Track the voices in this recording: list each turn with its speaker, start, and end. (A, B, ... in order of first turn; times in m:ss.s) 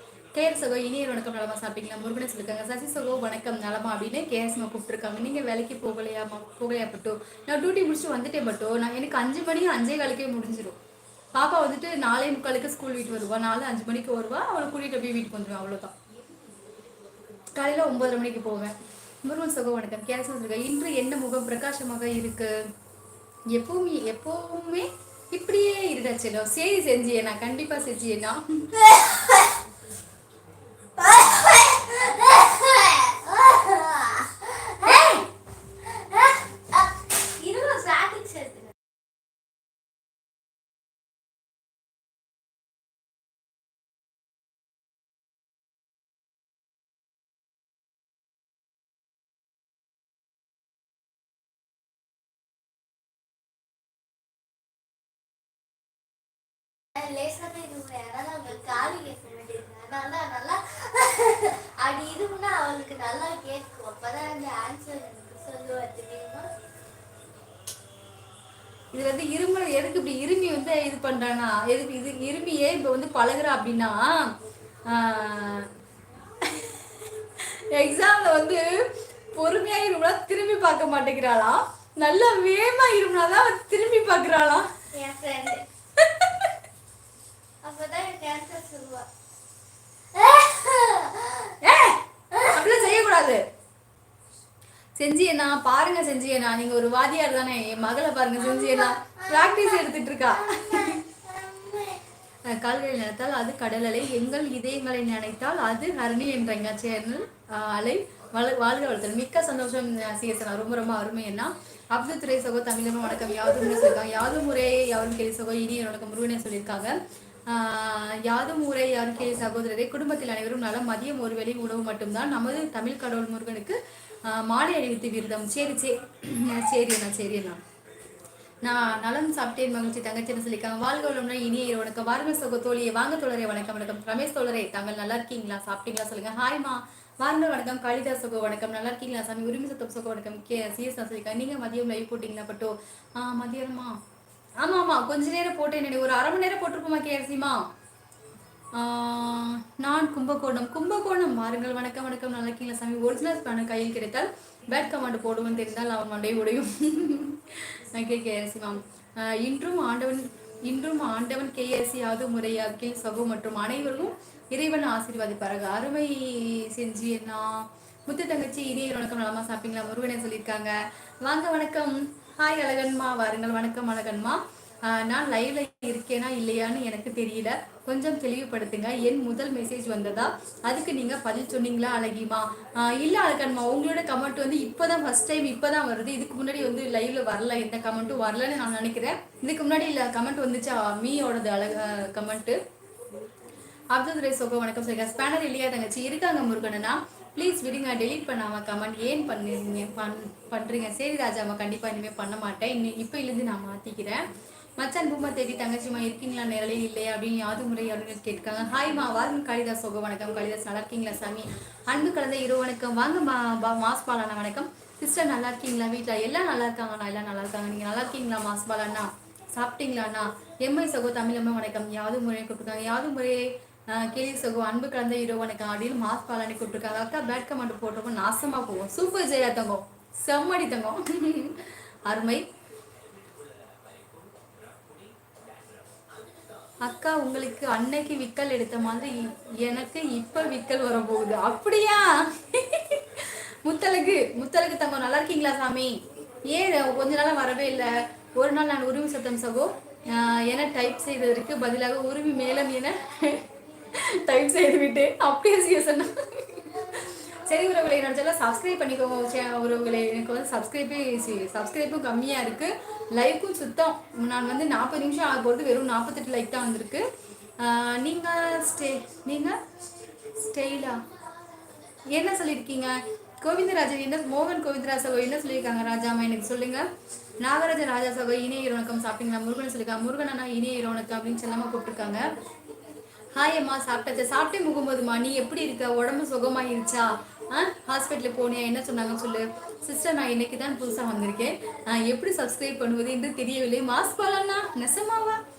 0:00.3-0:10.8 A
0:11.3-0:15.9 A
0:17.5-0:22.6 A
0:23.5-0:28.9 A
0:28.7-0:29.6 B
0:31.0-0:35.3 B
0:35.8-0:38.7 B
0:57.0-1:06.5 B
1:08.9-1:14.3 A
1:14.8-1:15.7 A
1:16.4-1:18.7 A
1:19.3-1:24.7 A
1:24.9-1:25.7 B
1:26.0-1:26.5 A
1:27.6-1:29.1 B
1:30.1-1:31.6 B
1:31.6-1:33.4 A
1:32.3-1:32.8 B
1:35.0-1:41.0 A
1:38.4-1:42.0 B
1:42.4-1:57.0 A
1:57.5-2:07.6 A
2:08.6-2:24.0 A
2:24.6-2:27.7 A
2:28.7-3:12.6 A
3:13.9-3:52.5 A
3:56.8-4:27.0 A
4:27.6-4:29.6 A
4:30.3-4:31.1 A
4:32.1-4:36.8 A
4:37.4-4:42.3 A
4:43.3-4:55.4 A